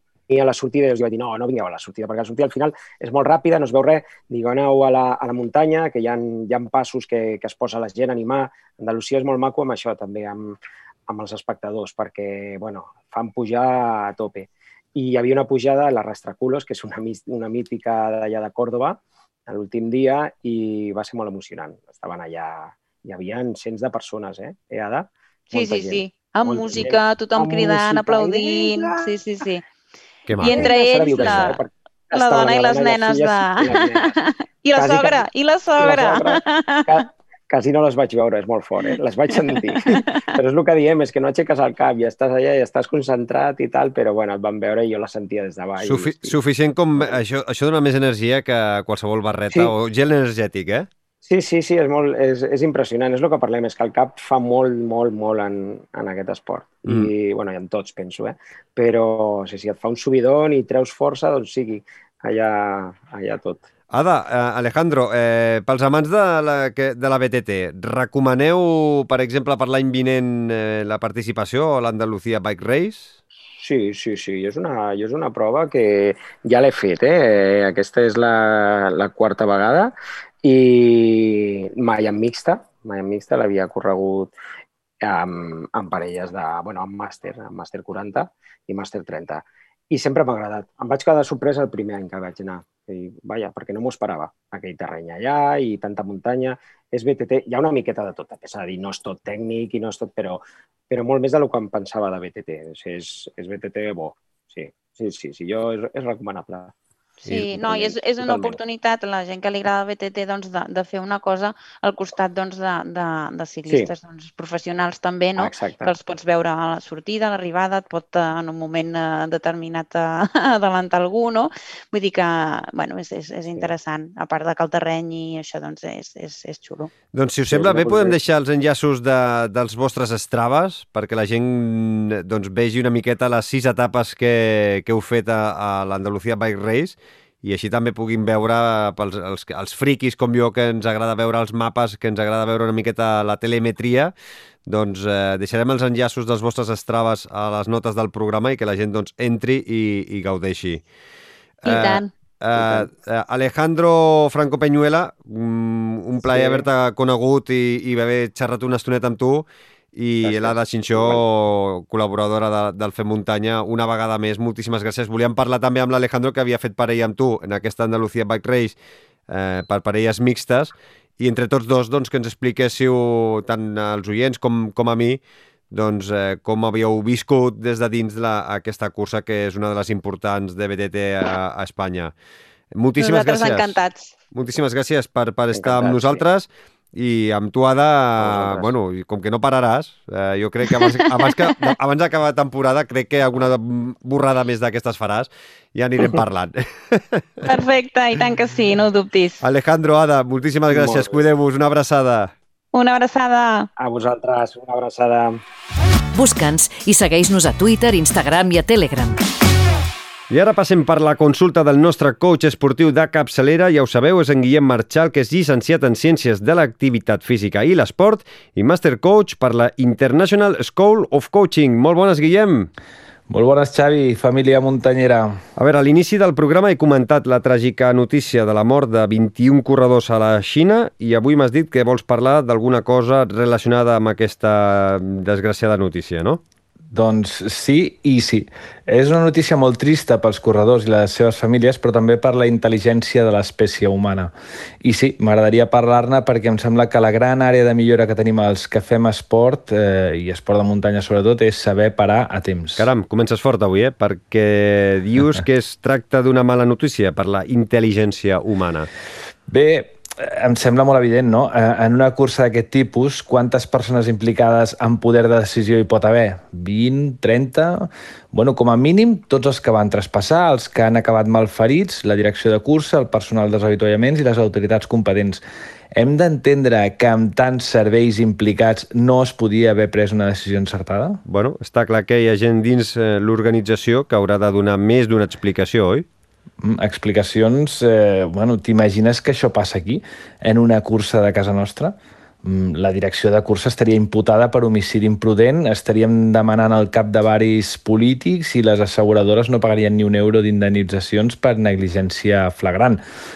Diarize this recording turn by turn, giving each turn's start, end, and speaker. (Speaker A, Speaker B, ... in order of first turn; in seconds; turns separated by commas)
Speaker A: 0.3-29.1, Speaker B: 25.5-29.6, Speaker C: 30.3-31.5, Speaker B: 30.4-37.1, Speaker A: 30.4-34.2, Speaker A: 34.8-35.2, Speaker A: 35.8-46.4, Speaker B: 38.9-40.3, Speaker C: 45.8-50.9, Speaker A: 51.2-63.6, Speaker C: 63.9-73.2, Speaker A: 73.6-84.3, Speaker A: 85.0-106.7, Speaker B: 107.2-126.9, Speaker A: 107.5-108.6, Speaker A: 115.4-116.0, Speaker C: 127.1-144.1, Speaker A: 127.5-128.2, Speaker C: 144.7-150.8, Speaker C: 151.6-168.8, Speaker B: 151.7-152.1, Speaker A: 152.6-152.9, Speaker A: 156.2-156.7, Speaker A: 160.2-161.2, Speaker C: 169.3-182.1, Speaker C: 182.7-183.8, Speaker B: 183.0-184.1, Speaker C: 184.3-197.6, Speaker A: 185.5-186.2, Speaker A: 188.2-188.7, Speaker B: 190.9-191.4, Speaker B: 197.4-199.4, Speaker C: 199.4-202.3, Speaker A: 200.7-201.2, Speaker B: 202.7-203.7, Speaker A: 203.8-205.4, Speaker D: 206.1-209.2, Speaker C: 210.3-222.7, Speaker E: 223.3-225.4, Speaker C: 225.6-236.4, Speaker E: 236.9-244.3, Speaker E: 244.8-252.9, Speaker C: 252.8-258.9, Speaker E: 259.5-275.4, Speaker E: 275.9-281.2, Speaker C: 281.3-286.1, Speaker E: 286.6-303.0